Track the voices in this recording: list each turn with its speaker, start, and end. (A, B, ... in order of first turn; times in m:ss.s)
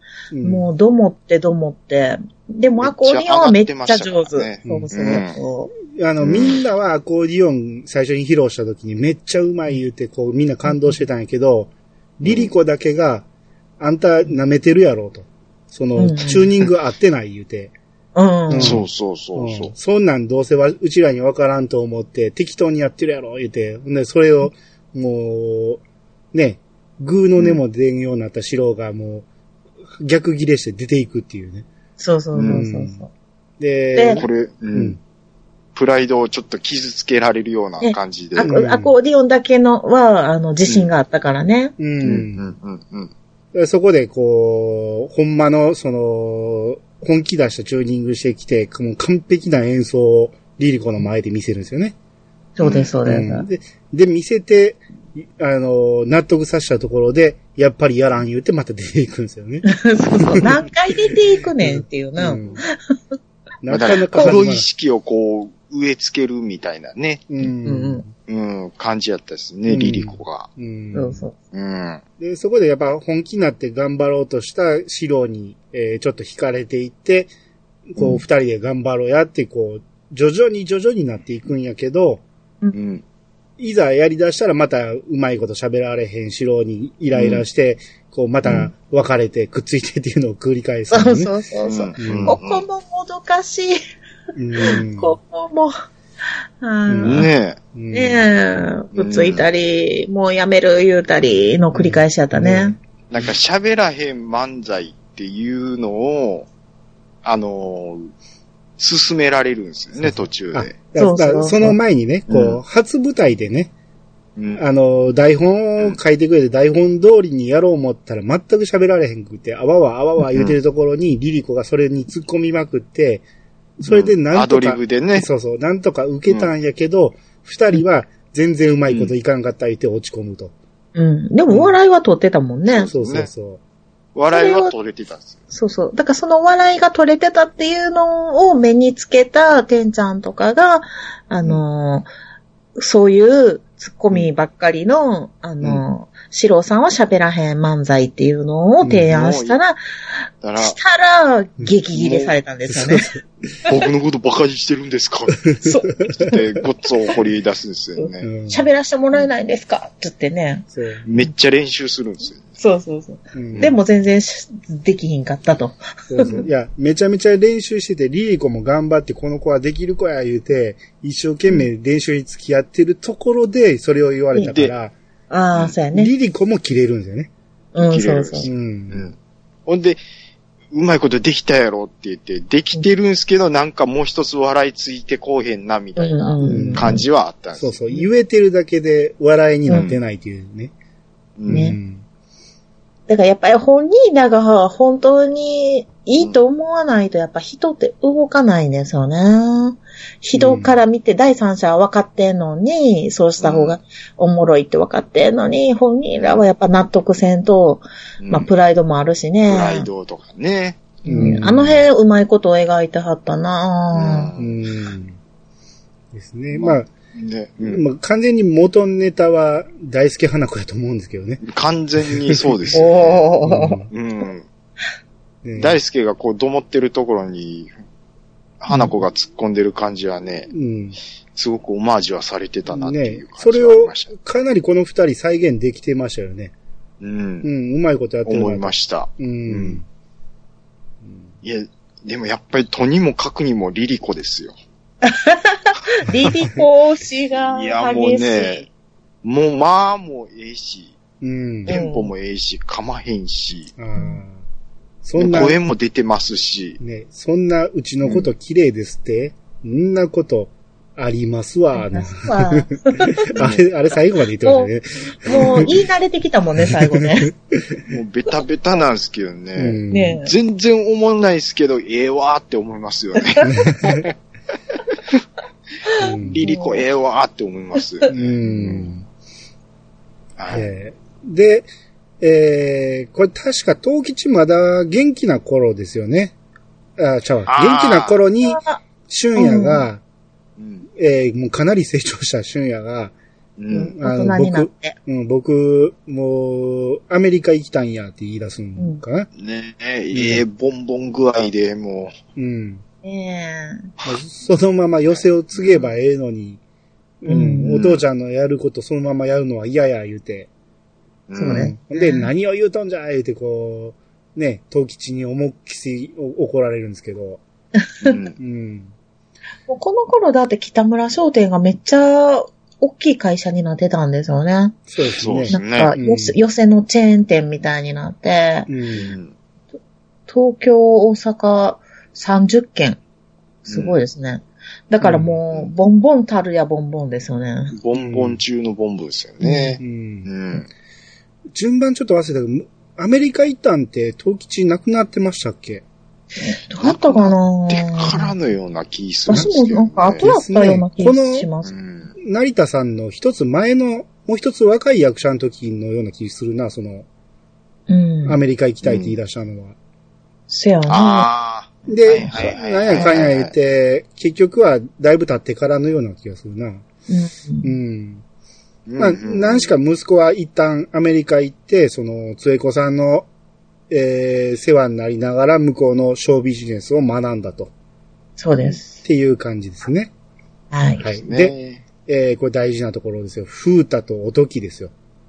0:00.3-0:00.7 A
0:00.4-0:05.7 B
0:02.8-0:05.4 C
0:04.6-0:04.9 A
0:05.9-0:13.3 A
0:06.2-0:06.6 C
0:10.7-0:11.0 B
0:12.2-0:12.5 C
0:13.8-0:17.7 A
0:16.0-0:16.5 B
0:18.2-0:18.8 B
0:18.5-0:25.8 A
0:18.6-0:19.7 C
0:26.3-0:29.3 A
0:30.0-0:31.7 A
0:32.0-0:33.1 B
0:32.4-0:32.6 C
0:32.5-0:33.0 A
0:33.6-0:35.0 A
0:33.9-0:34.2 B
0:34.2-0:35.0 C
0:35.8-0:38.5 C
0:37.8-0:41.8 B
0:38.4-0:38.9 A
0:41.8-0:42.4 A
0:42.0-0:43.1 C
0:43.5-0:52.0 A
0:52.6-0:53.5 B
0:52.6-0:52.9 C
0:53.0-1:00.7 A
0:59.7-1:03.2 B
1:01.6-1:02.6 A
1:02.3-1:02.6 C
1:03.6-1:04.7 A
1:03.7-1:07.2 C
1:04.1-1:04.4 B
1:07.3-1:08.1 A
1:07.6-1:08.0 B
1:08.3-1:10.5 C
1:09.7-1:11.2 A
1:10.9-1:11.4 B
1:11.5-1:12.0 C
1:12.2-1:17.3 A
1:17.9-1:22.2 A
1:22.7-1:23.0 C
1:23.6-1:31.3 A
1:27.1-1:27.4 C
1:30.9-1:33.8 B
1:31.7-1:32.6 C
1:32.0-1:32.4 A
1:34.4-1:35.2 A
1:34.6-1:35.8 B
1:36.6-1:37.3 B
1:36.9-1:38.3 A
1:37.0-1:37.6 C
1:37.9-1:42.8 B
1:38.9-1:39.5 C
1:41.7-1:43.3 A
1:43.1-1:46.5 C
1:47.2-1:48.1 C
1:48.8-1:50.8 C
1:50.0-1:53.7 A
1:51.0-1:51.8 B
1:52.3-1:52.6 C
1:54.4-1:54.6 C
1:54.6-2:03.2 A
2:03.8-2:10.5 A
2:03.9-2:05.3 C
2:08.9-2:09.1 C
2:11.0-2:12.9 B
2:12.7-2:13.3 C
2:12.9-2:13.6 A
2:14.2-2:15.4 C
2:14.3-2:14.7 B
2:15.5-2:22.1 B
2:22.8-2:33.1 B
2:28.8-2:29.1 A
2:29.1-2:29.6 C
2:30.4-2:30.8 C
2:31.9-2:32.4 C
2:32.7-2:33.2 A
2:33.7-2:35.4 C
2:35.5-2:36.4 A
2:35.6-2:36.4 B
2:36.2-2:38.3 C
2:38.0-2:40.7 B
2:38.2-2:38.7 A
2:40.7-2:41.1 A
2:41.1-2:42.6 C
2:42.6-2:46.4 B
2:43.3-2:43.7 A
2:46.1-2:54.9 A
2:54.4-2:54.7 C
2:55.3-2:56.1 B
2:55.9-2:57.3 A
2:57.8-2:58.5 B
2:57.8-2:59.2 C
2:58.4-2:59.1 A
2:59.7-3:00.0 C
3:00.7-3:07.8 C
3:06.0-3:07.0 B
3:06.4-3:07.0 A
3:07.6-3:10.7 A
3:09.7-3:10.0 C
3:11.4-3:11.7 C
3:11.5-3:12.0 A
3:11.5-3:11.8 B
3:13.1-3:29.9 B
3:20.4-3:20.8 A
3:23.4-3:23.8 C
3:26.2-3:26.4 C
3:28.2-3:28.5 C
3:29.5-3:31.3 C
3:31.0-3:34.3 B
3:31.1-3:31.8 A
3:33.9-3:34.6 C
3:34.4-3:35.2 A
3:36.1-3:36.9 A
3:36.5-3:37.8 C
3:37.7-3:41.4 A
3:41.4-3:43.3 C
3:42.1-3:42.7 A
3:42.7-3:43.8 B
3:43.4-3:43.9 A
3:43.9-3:44.5 C
3:45.4-3:45.8 A
3:45.6-3:47.7 C
3:48.6-3:50.5 C
3:50.5-3:51.0 A
3:51.4-3:54.1 C
3:52.7-3:56.5 A
3:57.0-3:57.5 C
3:57.4-3:59.8 A
3:58.2-3:59.8 C
4:01.0-4:01.3 A
4:01.4-4:04.5 C
4:05.0-4:08.7 B
4:07.3-4:08.7 C
4:09.2-4:11.0 C
4:11.2-4:11.8 A
4:11.7-4:12.1 B
4:11.7-4:13.7 C
4:13.8-4:14.4 A
4:14.0-4:14.2 B
4:15.0-4:15.6 A
4:15.2-4:16.8 C
4:16.8-4:25.7 A
4:18.0-4:18.3 C
4:21.7-4:23.3 B
4:23.4-4:23.6 C
4:24.4-4:27.3 B
4:25.3-4:25.7 C
4:26.6-4:27.9 A
4:27.9-4:34.1 C
4:29.6-4:30.2 A
4:29.9-4:30.3 B
4:33.4-4:33.9 B
4:33.5-4:34.1 A
4:35.9-4:36.8 B
4:36.0-4:36.4 A
4:36.3-4:38.9 C
4:38.1-4:39.0 A
4:40.4-4:40.7 C
4:40.5-4:41.7 A
4:42.2-4:46.3 A
4:47.0-4:50.0 A
4:47.5-4:48.2 C
4:48.4-4:48.8 B
4:49.4-4:49.9 B
4:50.6-4:50.9 C
4:51.0-4:53.2 A
4:53.6-4:53.9 C
4:53.7-4:55.0 B
4:53.9-4:59.3 A
4:58.8-4:59.0 B
4:59.4-5:02.1 C
5:00.1-5:00.4 A
5:02.4-5:02.8 A
5:03.0-5:03.9 B
5:04.0-5:06.6 A
5:05.5-5:05.9 C
5:07.2-5:10.5 A
5:07.3-5:07.8 B
5:07.7-5:08.0 C
5:11.3-5:11.7 C
5:11.4-5:12.3 B
5:11.5-5:17.4 A
5:18.0-5:18.4 C
5:18.4-5:18.9 A
5:19.7-5:24.8 B
5:24.9-5:26.4 A
5:25.2-5:26.0 C
5:25.5-5:28.7 B
5:28.7-5:29.1 A
5:29.0-5:29.3 C
5:30.3-5:33.0 B
5:33.6-5:37.8 B
5:33.7-5:34.0 C
5:35.0-5:35.4 A
5:37.8-5:40.7 C
5:37.9-5:38.4 A
5:39.4-5:39.8 B
5:39.8-5:40.3 A
5:41.5-5:45.8 A
5:46.4-5:48.3 B
5:46.8-5:50.2 C
5:49.3-5:51.7 B
5:50.2-5:51.5 A
5:51.6-5:52.2 C
5:52.2-5:57.1 A
5:57.9-5:58.4 B
5:58.2-5:59.8 A
5:58.8-5:59.1 C
6:00.5-6:01.3 B
6:00.9-6:03.5 C
6:01.9-6:06.8 A
6:07.1-6:07.7 B
6:07.6-6:08.2 A
6:08.9-6:09.7 C
6:09.0-6:13.3 A
6:13.9-6:17.7 A
6:18.4-6:19.0 B
6:18.8-6:20.1 A
6:20.7-6:21.1 B
6:21.0-6:21.6 A
6:21.2-6:21.8 C
6:22.1-6:24.9 A